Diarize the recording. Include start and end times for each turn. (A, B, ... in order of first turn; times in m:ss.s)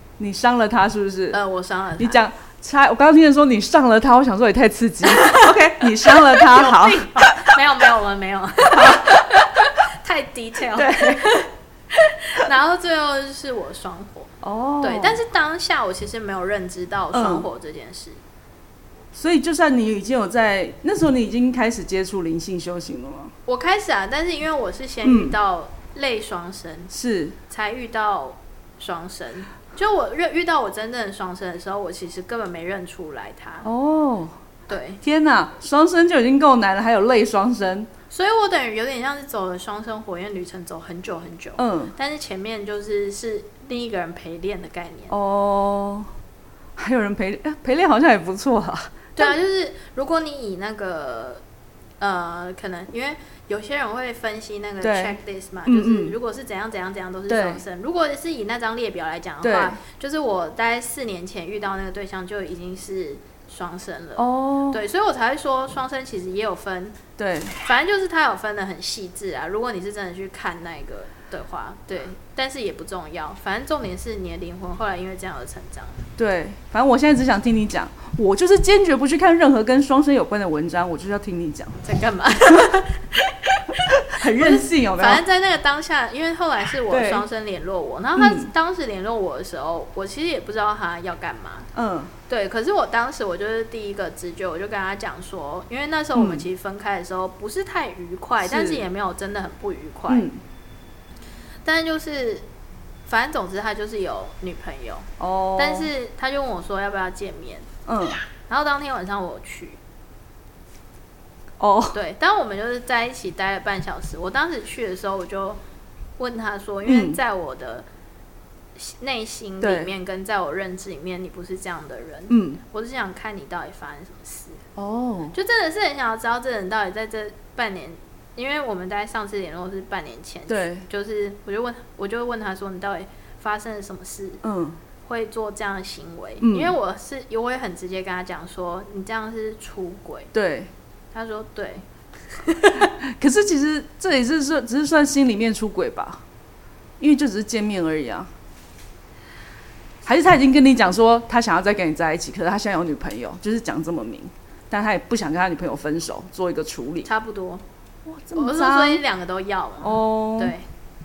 0:00.2-0:01.4 A
0:01.3-0:02.2 B
0:02.0-0:07.6 A
0:05.0-0:18.2 B
0:08.7-0:09.6 A
0:10.7-0:11.3 A
0:14.4-0:15.2 A
0:17.1-0:17.5 A
0:19.1-0:23.3 A
0:23.4-0:26.9 B
0:25.0-0:25.4 A
0:26.9-0:27.4 A
0:27.5-0:33.6 B
0:33.6-0:34.4 A
0:34.7-0:35.0 B
0:35.0-0:37.9 A
0:38.1-0:45.1 B
0:41.6-0:41.9 A
0:45.1-0:46.1 A
0:46.8-0:49.3 A
0:49.2-0:51.4 B
0:52.0-1:07.0 B
0:54.8-0:56.1 A
0:57.3-0:57.6 A
0:59.4-0:59.8 A
1:04.2-1:04.8 A
1:07.2-1:07.6 A
1:07.6-1:16.0 B
1:16.2-1:21.8 A
1:21.8-1:31.7 B
1:23.8-1:25.2 A
1:26.9-1:27.2 A
1:28.2-1:28.5 A
1:31.7-1:32.1 A
1:32.3-1:40.3 B
1:36.1-1:36.4 A
1:38.4-1:38.8 A
1:40.1-1:40.4 A
1:41.6-1:42.4 B
1:43.0-1:47.7 B
1:45.2-1:45.9 A
1:47.9-1:48.2 A
1:48.5-1:49.8 B
1:51.6-1:52.0 A
1:51.9-1:55.6 B
1:56.2-1:57.8 B
1:56.8-1:57.2 A
1:58.8-2:04.6 B
1:59.6-1:59.9 A
2:02.3-2:02.6 A
2:04.8-2:05.3 A
2:05.3-2:14.4 B
2:10.5-2:10.8 A
2:14.4-2:14.8 A
2:15.0-2:20.3 B
2:16.4-2:16.7 A
2:20.3-2:20.7 A
2:21.1-2:22.9 B
2:22.7-2:26.2 A
2:27.0-2:28.3 A
2:30.0-2:37.1 A
2:37.0-2:37.6 B
2:38.0-2:39.0 A
2:38.3-2:40.6 B
2:39.8-2:40.5 A